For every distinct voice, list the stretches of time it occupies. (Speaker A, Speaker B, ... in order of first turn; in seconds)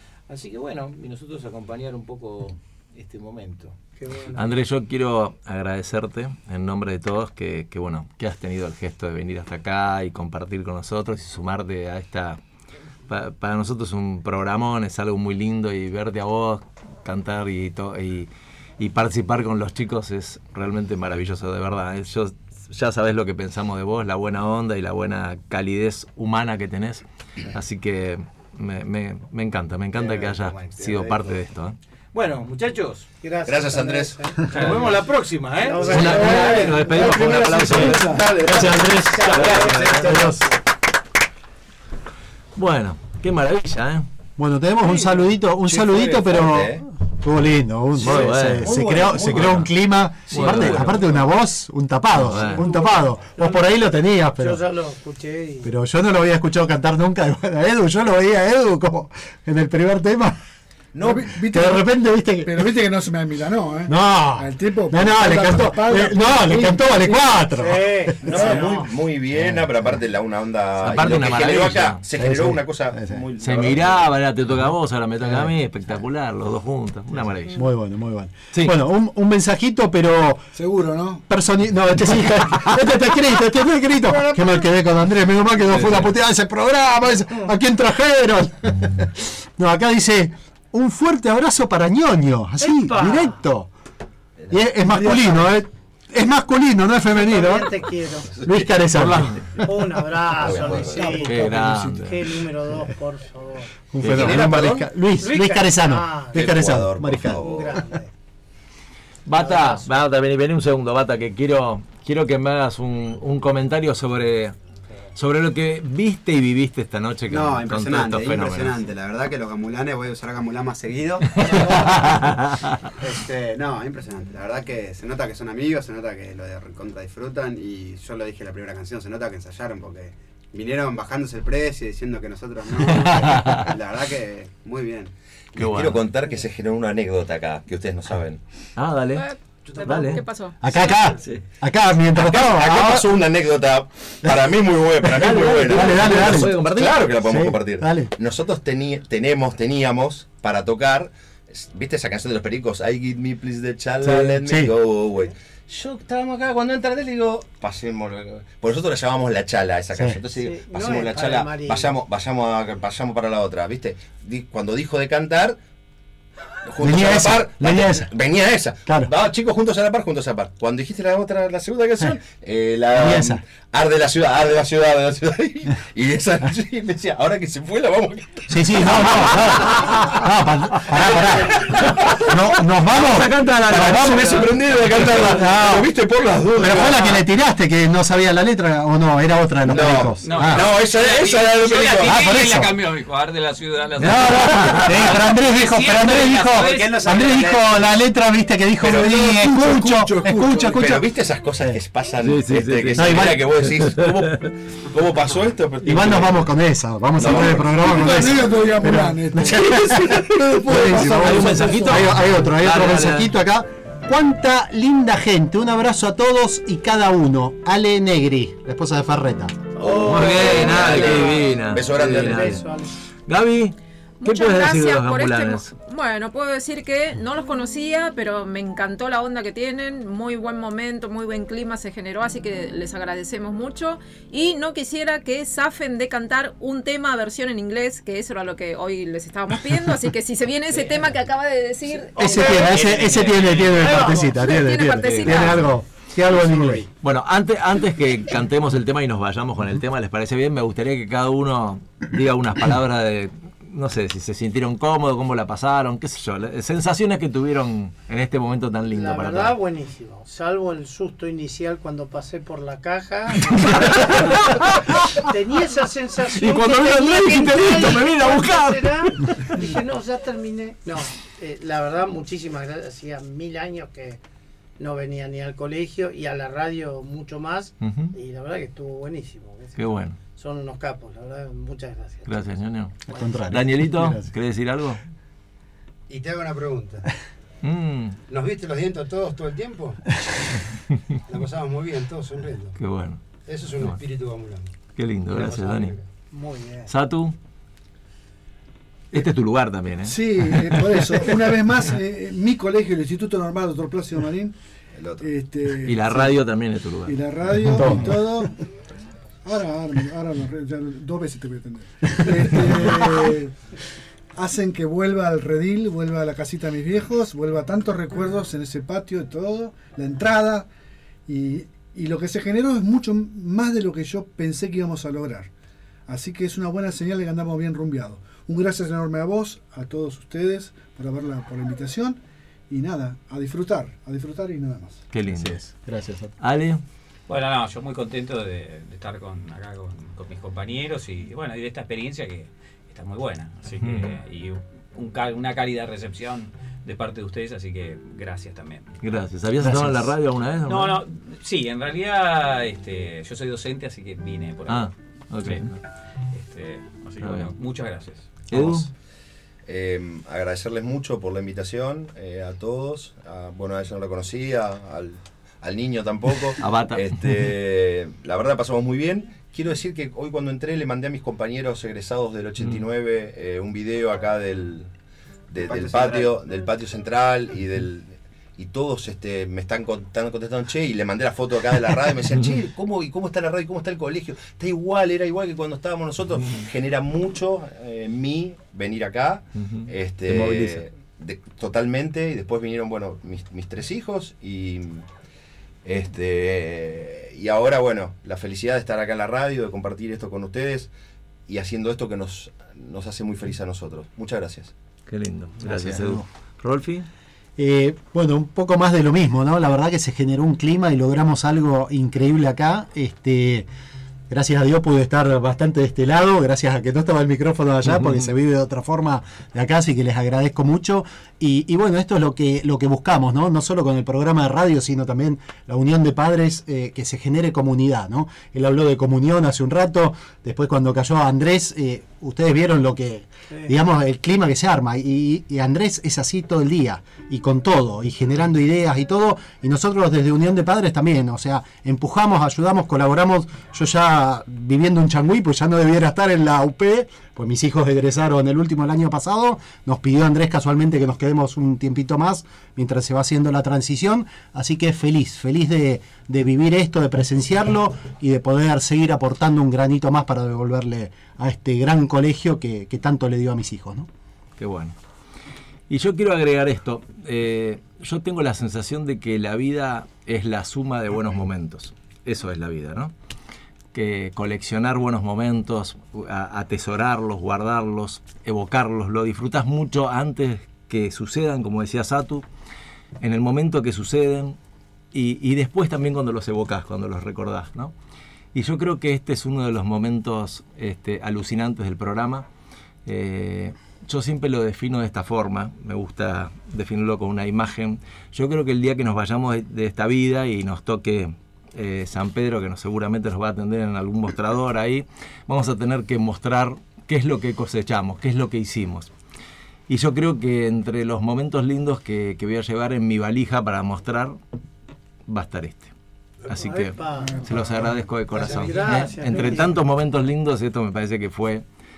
Speaker A: 0.3-3.8, 29.9-31.4, 32.1-33.1, 34.5-36.3
Speaker B: 4.0-4.5, 33.2-35.0, 35.5-37.1, 38.9-40.5, 52.6-53.8, 54.4-55.7, 67.6-68.9, 92.6-93.4, 97.1-98.3, 99.7-103.7, 105.2-106.5, 107.3-108.1, 109.3-109.9, 139.7-140.2, 160.3-161.9, 219.8-222.9, 243.8-244.3, 258.9-274.2, 274.8-282.4, 296.3-296.9, 516.5-517.4, 518.4-519.8
Speaker C: 4.3-12.4, 13.1-31.8, 35.8-40.4, 42.5-44.0, 48.0-48.7, 49.3-49.7, 50.3-50.9, 52.2-52.7, 70.8-72.0, 73.4-77.6, 85.7-86.1, 101.0-102.2, 109.2-114.5, 115.2-118.8, 121.8-122.3, 132.9-133.7, 135.6-136.0, 138.8-139.2, 139.8-140.2, 145.2-146.9, 183.3-184.4, 185.0-185.3, 202.2-204.5, 209.6-213.3, 219.8-222.6, 223.3-225.7, 244.9-245.7, 247.0-259.5, 263.6-265.0, 266.3-269.7, 277.8-278.1, 279.8-280.1, 282.3-285.0, 287.6-288.2, 292.8-293.2, 294.9-295.9, 296.9-297.3, 299.1-301.4, 305.8-307.2, 307.7-308.1, 335.1-335.6, 336.4-336.8, 343.8-344.1, 349.0-351.0, 354.7-355.7, 357.2-357.5, 358.5-358.9, 366.6-367.1, 389.7-390.8, 405.1-407.1, 417.8-418.2, 464.6-464.9, 465.9-473.1, 473.9-482.4, 483.2-484.6, 485.1-487.9, 488.5-492.4, 493.1-509.1, 509.9-514.4, 515.3-515.9, 516.5-521.6
Speaker D: 33.5-34.3, 46.1-46.8, 48.1-49.7, 50.4-51.0, 60.9-61.3, 68.2-74.1, 94.4-94.7, 98.4-99.3, 100.4-101.2, 104.0-104.9, 106.3-107.8, 135.5-138.4, 142.2-165.6, 166.6-179.5, 183.7-187.2, 189.7-192.2, 198.8-206.5, 207.2-208.2, 219.9-222.6, 304.9-305.3, 359.6-374.9, 375.5-395.1, 395.8-400.9, 401.5-404.7
Speaker E: 34.5-34.9, 190.2-198.0, 242.4-244.1, 337.3-348.9, 350.6-354.9, 355.4-355.7, 356.3-358.9
Speaker F: 36.0-38.4, 61.0-61.9, 62.4-67.4, 80.5-81.2, 84.1-84.6, 100.9-101.9, 199.9-200.8, 207.3-212.2, 300.0-304.5, 305.2-306.4, 307.1-308.5, 309.4-313.5, 314.4-320.7, 321.3-325.5, 326.1-335.0, 517.2-517.9
Speaker G: 37.8-40.4, 44.4-54.6, 55.6-60.4, 61.5-62.7, 63.9-68.1, 69.3-69.6, 72.2-73.2, 77.5-80.5, 81.3-88.7, 89.6-93.7, 94.5-97.8, 98.4-99.3, 103.9-107.4, 140.6-143.1, 145.2-148.1, 154.0-154.7, 159.9-160.2, 166.8-168.1, 168.8-169.1, 172.9-173.4, 178.5-181.7, 182.3-185.9, 186.5-190.7, 192.0-192.7, 194.0-201.0, 202.9-204.0, 205.8-219.7, 242.2-246.8, 283.1-284.3, 307.7-308.2, 349.6-350.1, 405.6-406.2, 407.6-413.6, 414.3-464.1
Speaker H: 117.3-122.4, 123.0-135.1, 375.9-376.2
Speaker I: 139.9-140.6, 224.2-242.5, 244.3-245.6
Speaker J: 286.1-287.0, 288.3-290.0, 291.3-292.8, 293.4-294.7, 295.3-296.1